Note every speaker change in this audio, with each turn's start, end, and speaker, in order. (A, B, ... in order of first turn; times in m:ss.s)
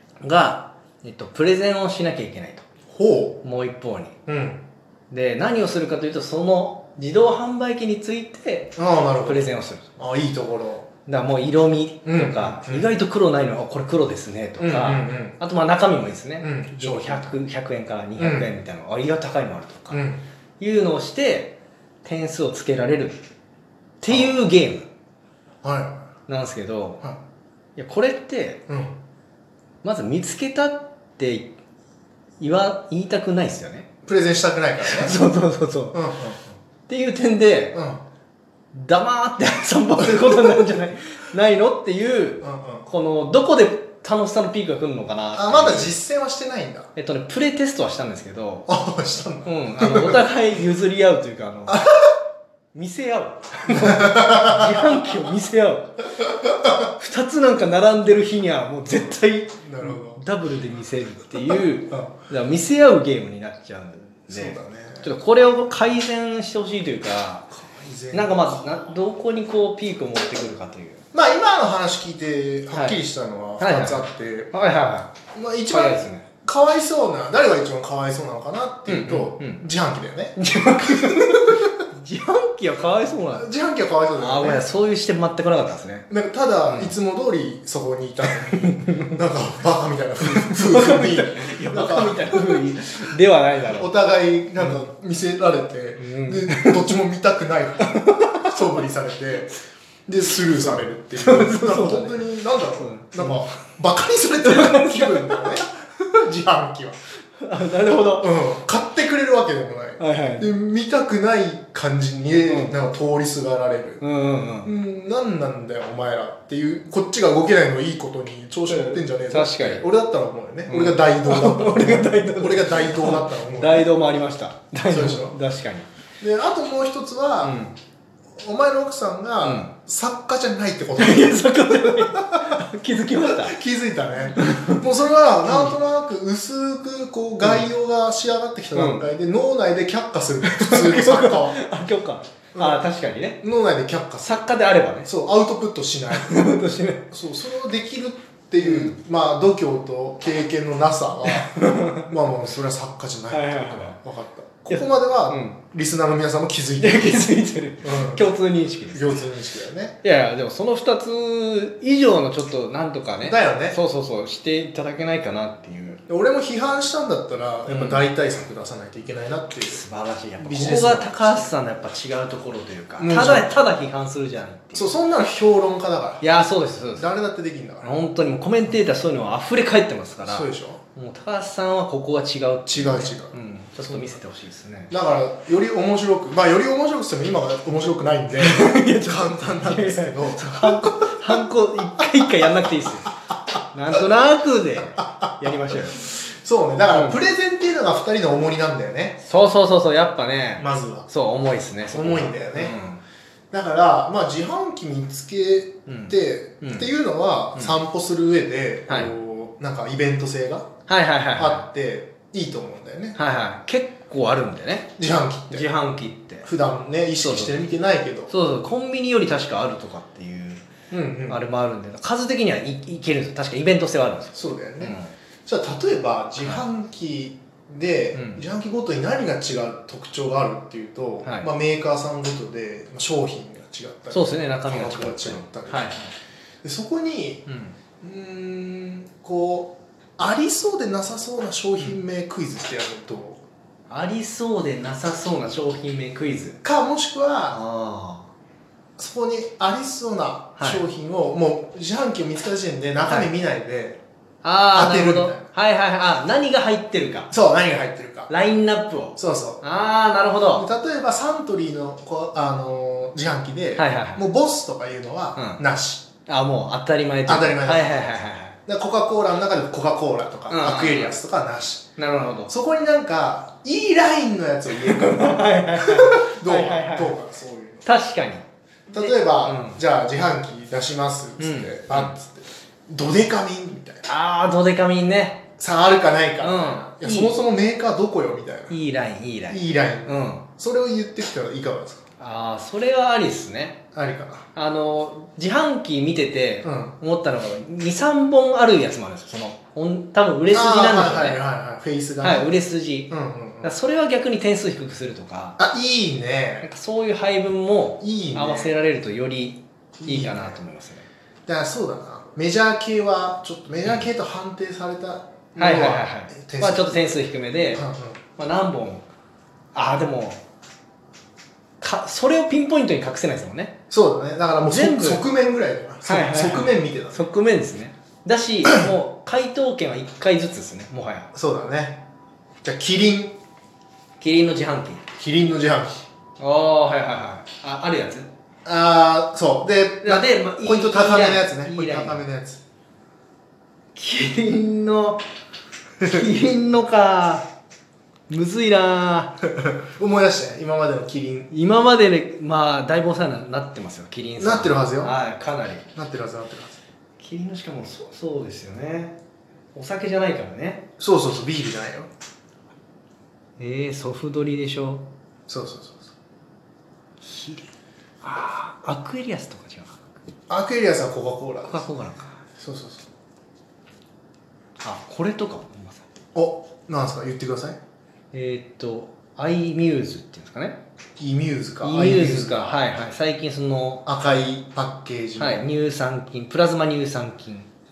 0:00.2-0:02.6 A
0:02.9-0:03.4 B
0:03.4-0:04.2 A
0:04.3-0:04.6 B
0:05.1-0:09.9 A
0:08.8-0:10.9 B
0:11.1-0:20.0 A
0:12.0-0:12.9 B
0:14.6-0:15.4 B
0:16.4-0:17.4 B
0:18.2-0:18.5 B
0:19.9-0:20.2 B
0:20.6-0:23.2 A
0:24.0-0:24.9 A
0:24.1-0:24.4 B
0:25.6-0:26.0 B
0:26.3-0:27.0 A
0:27.8-0:28.6 A
0:28.7-0:29.0 B
0:29.8-0:31.5 A
0:32.4-0:33.9 A
0:34.0-0:35.2 B
0:34.8-0:36.0 A
0:35.9-0:36.5 B
0:36.9-0:37.8 A
0:37.7-0:38.0 B
0:38.7-0:46.0 A
0:40.2-0:40.6 B
0:42.4-0:42.9 B
0:45.3-0:46.9 B
0:47.0-0:48.7 A
0:48.7-0:50.2 B
0:49.4-0:51.8 A
0:51.7-0:52.1 B
0:52.7-0:56.0 A
0:53.7-0:55.2 B
0:56.8-1:07.5 A
0:59.6-1:00.2 B
1:04.3-1:05.1 B
1:07.5-1:08.8 B
1:08.1-1:11.0 A
1:11.1-1:14.5 B
1:12.7-1:13.0 A
1:13.6-1:15.1 A
1:15.3-1:21.7 B
1:15.7-1:16.3 A
1:18.9-1:19.6 A
1:20.4-1:23.5 A
1:23.3-1:24.7 B
1:24.2-1:26.1 A
1:26.1-1:32.7 B
1:26.7-1:26.9 A
1:28.5-1:29.2 A
1:30.4-1:33.9 A
1:33.7-1:39.5 B
1:36.0-1:36.9 A
1:37.8-1:38.7 A
1:40.1-1:47.0 B
1:40.4-1:43.4 A
1:44.4-1:45.6 A
1:47.4-1:48.3 A
1:48.2-1:54.0 B
1:50.0-1:50.5 A
1:52.5-1:52.7 A
1:54.0-1:54.7 A
1:54.6-2:03.9 B
1:58.7-1:59.8 A
2:00.7-2:05.9 A
2:04.9-2:05.4 B
2:06.2-2:07.7 B
2:07.4-2:07.7 A
2:08.4-2:12.6 B
2:09.4-2:09.7 A
2:11.0-2:13.6 A
2:13.2-2:21.6 B
2:14.4-2:14.8 A
2:15.5-2:15.8 A
2:17.4-2:17.7 A
2:18.7-2:19.1 A
2:20.4-2:23.4 A
2:22.5-2:22.9 B
2:23.4-2:24.4 B
2:24.2-2:25.1 A
2:25.0-2:26.4 B
2:26.1-2:27.1 A
2:27.1-2:37.3 B
2:28.6-2:29.0 A
2:31.3-2:32.1 A
2:33.3-2:34.0 A
2:34.7-2:35.6 A
2:36.8-2:39.3 A
2:37.8-2:38.3 B
2:38.9-2:40.0 B
2:40.0-2:46.0 A
2:43.2-2:43.8 B
2:46.1-2:49.8 B
2:47.7-2:48.0 A
2:49.7-2:54.9 A
2:50.4-2:51.5 B
2:53.0-2:53.5 B
2:54.7-2:56.2 B
2:56.2-2:57.1 A
2:56.9-2:58.0 B
2:57.8-3:04.9 A
3:00.2-3:00.8 B
3:02.7-3:04.2 B
3:04.9-3:11.4 B
3:08.4-3:13.1 A
3:12.0-3:12.7 B
3:13.7-3:16.0 A
3:14.9-3:19.2 B
3:16.9-3:17.2 A
3:19.2-3:23.0 A
3:20.6-3:21.1 B
3:21.8-3:22.8 B
3:23.5-3:30.7 B
3:25.9-3:26.9 A
3:28.9-3:29.2 A
3:30.9-3:31.6 A
3:31.4-3:33.2 B
3:33.2-3:34.9 A
3:35.0-3:35.7 B
3:35.5-3:36.5 A
3:36.4-3:38.3 B
3:37.2-3:37.6 A
3:38.3-3:40.7 A
3:40.9-3:41.4 B
3:41.3-3:45.1 A
3:44.3-3:55.9 B
3:48.1-3:48.4 A
3:51.2-3:51.5 A
3:54.1-3:56.1 A
3:56.6-3:57.5 B
3:57.5-3:57.8 A
3:58.0-4:03.4 B
4:03.9-4:06.6 A
4:06.6-4:07.6 B
4:07.5-4:08.3 A
4:09.0-4:14.0 B
4:10.6-4:10.8 A
4:14.4-4:17.3 A
4:14.7-4:15.5 B
4:17.3-4:18.3 B
4:18.3-4:20.7 A
4:19.2-4:19.6 B
4:20.6-4:26.1 B
4:23.8-4:24.2 A
4:25.4-4:25.6 A
4:26.3-4:28.6 A
4:27.3-4:28.2 B
4:28.7-4:31.9 B
4:30.5-4:31.2 A
4:32.0-4:32.5 A
4:32.5-4:37.8 B
4:34.7-4:37.2 A
4:37.8-4:39.8 A
4:38.9-4:44.1 B
4:41.4-4:42.1 A
4:44.0-4:45.5 A
4:45.6-4:48.8 B
4:46.4-4:47.4 A
4:48.7-4:50.4 A
4:49.5-4:52.0 B
4:52.2-4:53.8 A
4:54.0-4:54.5 B
4:54.6-5:01.4 A
4:56.6-4:57.0 B
5:00.5-5:02.5 B
5:02.2-5:05.6 A
5:03.1-5:03.7 B
5:05.6-5:06.7 B
5:06.6-5:11.1 A
5:08.0-5:08.8 B
5:10.0-5:10.6 B
5:11.5-5:17.2 B
5:15.6-5:17.8 A
5:17.7-5:18.2 B
5:18.4-5:19.1 A
5:19.7-5:20.4 A
5:21.8-5:23.8 A
5:23.9-5:27.2 B
5:24.6-5:25.2 A
5:26.0-5:31.3 A
5:28.6-5:28.9 B
5:31.3-5:32.0 B
5:32.6-5:33.4 B
5:34.2-5:35.0 A
5:35.2-5:36.0 B
5:36.4-5:38.3 A
5:38.6-5:42.6 B
5:40.0-5:42.2 A
5:44.0-5:45.2 A
5:46.0-5:47.5 A
5:46.0-5:46.3 B
5:48.3-5:49.4 A
5:49.6-5:51.5 B
5:51.5-5:55.9 A
5:54.4-5:55.2 B
5:56.0-5:56.8 B
5:57.2-5:59.2 A
5:59.7-6:00.9 A
6:01.0-6:02.1 B
6:03.6-6:05.1 A
6:05.5-6:06.1 B
6:07.2-6:07.7 A
6:08.2-6:10.0 A
6:10.5-6:11.9 B
6:11.7-6:12.4 A
6:12.6-6:13.1 B
6:14.8-6:16.1 A
6:16.4-6:17.8 B
6:18.3-6:20.8 A
6:21.2-6:22.8 B
6:21.8-6:24.1 A
6:24.1-6:25.7 B
6:25.4-6:27.7 A